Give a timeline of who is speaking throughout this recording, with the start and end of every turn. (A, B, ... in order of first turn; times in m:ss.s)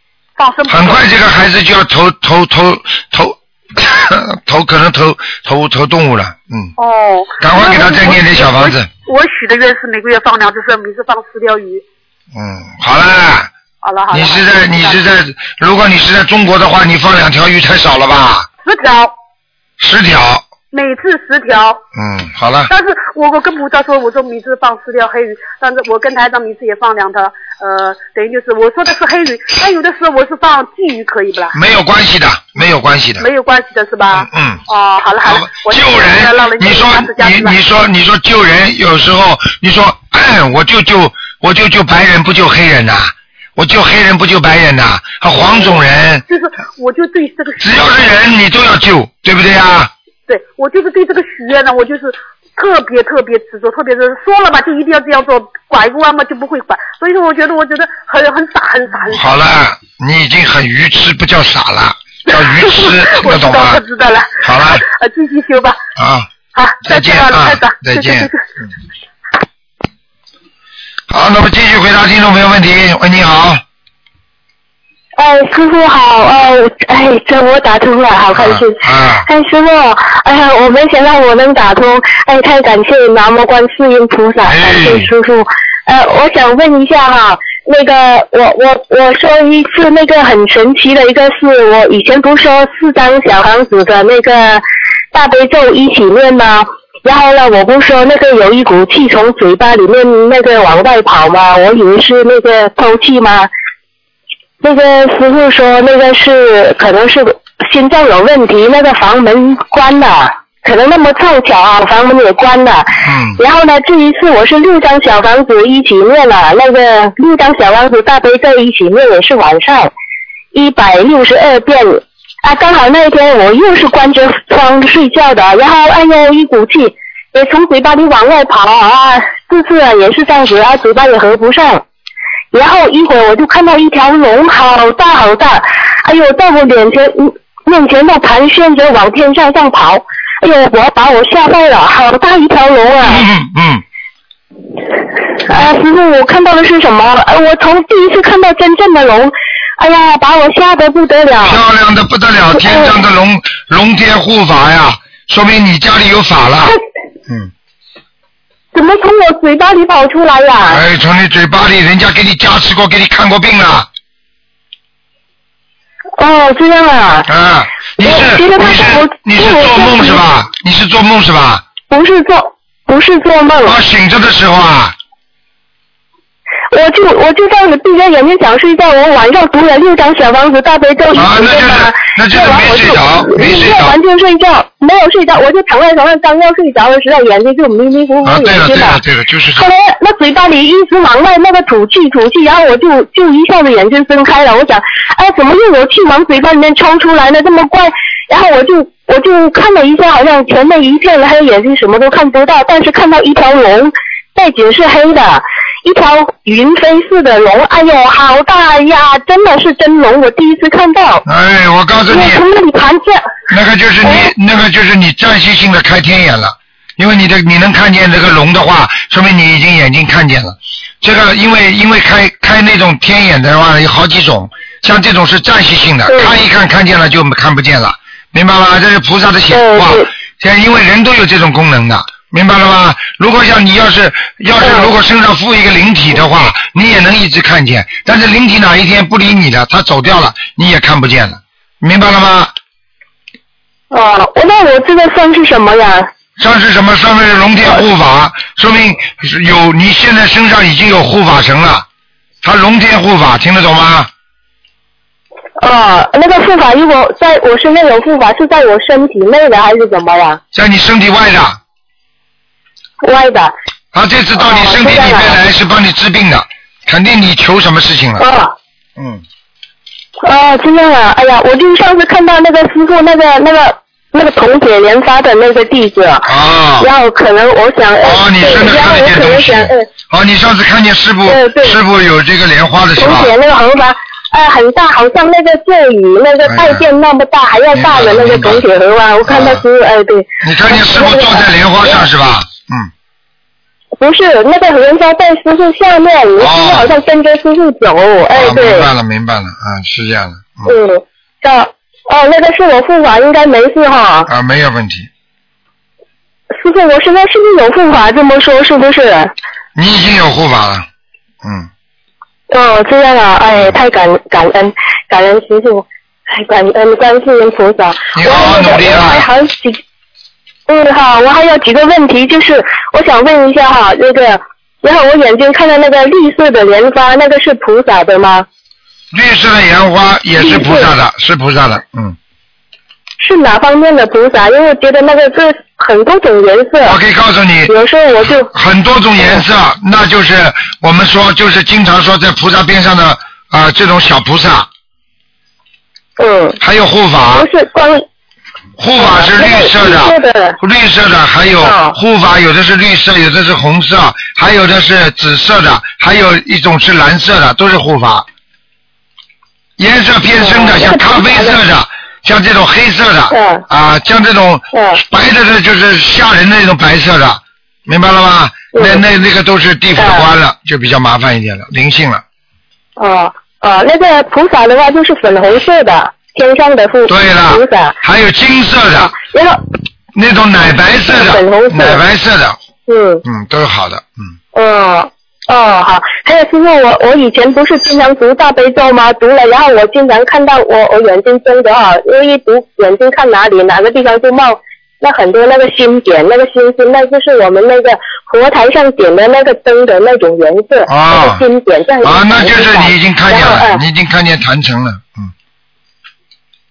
0:00.4-0:01.0 A
0:00.7-0:06.7 B
0:06.8-0:11.8 A
0:07.4-0:08.9 B
0:12.3-0:13.5 B
0:13.8-0:15.0 A
0:14.1-0:18.5 B
0:18.6-0:19.1 A
0:19.8-0:20.4 B
0:20.7-0:21.8 A
0:21.9-0:22.7 B
0:22.7-0:31.6 A
0:31.5-0:33.3 B
0:33.2-0:37.6 A
0:34.1-0:34.6 B
0:35.2-0:46.2 B
0:45.4-0:48.1 A
0:47.6-0:49.9 B
0:50.3-0:59.4 A
0:59.1-1:03.8 B
1:02.3-1:05.8 A
1:04.4-1:04.8 B
1:06.0-1:06.3 B
1:06.5-1:08.4 A
1:06.8-1:08.3 B
1:11.1-1:13.6 B
1:15.2-1:43.5 C
1:18.3-1:19.3 B
1:24.4-1:25.1 B
1:44.6-1:59.9 C
1:53.0-1:53.4 B
2:00.5-2:11.8 C
2:12.5-2:23.2 C
2:23.0-2:23.8 B
2:25.4-2:31.6 C
2:31.4-2:36.8 B
2:32.5-2:33.0 C
2:38.7-2:40.8 C
2:40.6-2:43.9 B
2:46.2-2:47.3 C
2:47.3-2:51.6 B
2:48.0-2:50.2 C
2:51.9-2:53.8 C
2:53.6-2:54.9 B
2:56.7-3:09.0 C
3:01.1-3:04.0 B
3:08.2-3:09.7 B
3:09.6-3:31.2 C
3:31.2-3:32.4 B
3:32.1-3:33.4 C
3:33.5-4:02.5 B
3:34.0-3:34.3 C
3:46.1-3:46.4 C
3:49.5-3:50.1 C
3:54.6-3:54.9 C
4:03.9-4:06.1 C
4:06.4-4:11.8 B
4:12.4-4:14.1 B
4:15.6-4:20.4 C
4:20.5-4:21.6 B
4:23.0-4:23.5 C
4:23.9-4:28.2 B
4:24.3-4:25.4 C
4:28.2-4:28.5 C
4:29.0-4:29.2 B
4:30.2-4:36.3 C
4:36.2-4:36.9 B
4:36.8-4:39.8 C
4:38.0-4:43.3 B
4:41.3-4:41.8 C
4:43.0-4:52.1 C
4:46.4-4:46.9 B
4:47.7-4:48.6 B
4:49.2-4:49.6 B
4:50.4-4:52.9 B
4:54.0-4:58.9 C
4:56.4-4:57.0 B
4:58.3-5:00.7 B
5:00.6-5:04.3 C
5:04.2-5:05.1 B
5:06.5-5:09.3 C
5:09.7-5:10.8 B
5:11.4-5:11.7 B
5:12.5-5:19.8 C
5:18.1-5:19.2 B
5:20.7-5:28.4 C
5:29.1-5:32.2 B
5:30.4-5:30.9 C
5:33.2-5:37.0 C
5:36.8-5:44.7 B
5:37.7-5:38.5 C
5:46.2-5:46.6 C
5:46.6-5:47.5 B
5:47.3-5:48.0 C
5:48.8-5:58.2 B
5:49.0-5:50.6 C
5:51.6-5:51.9 C
5:59.8-6:12.2 B
6:00.3-6:01.6 C
6:03.3-6:03.6 C
6:04.7-6:05.0 C
6:08.7-6:09.0 C
6:10.0-6:10.3 C
6:13.0-6:18.0 C
6:17.0-6:19.2 B
6:18.9-6:19.6 C
6:20.1-6:22.6 B
6:21.1-6:22.0 C
6:22.9-6:23.2 C
6:23.2-6:24.3 B
6:24.5-6:43.8 C
6:40.9-6:41.4 B
6:42.0-6:45.3 B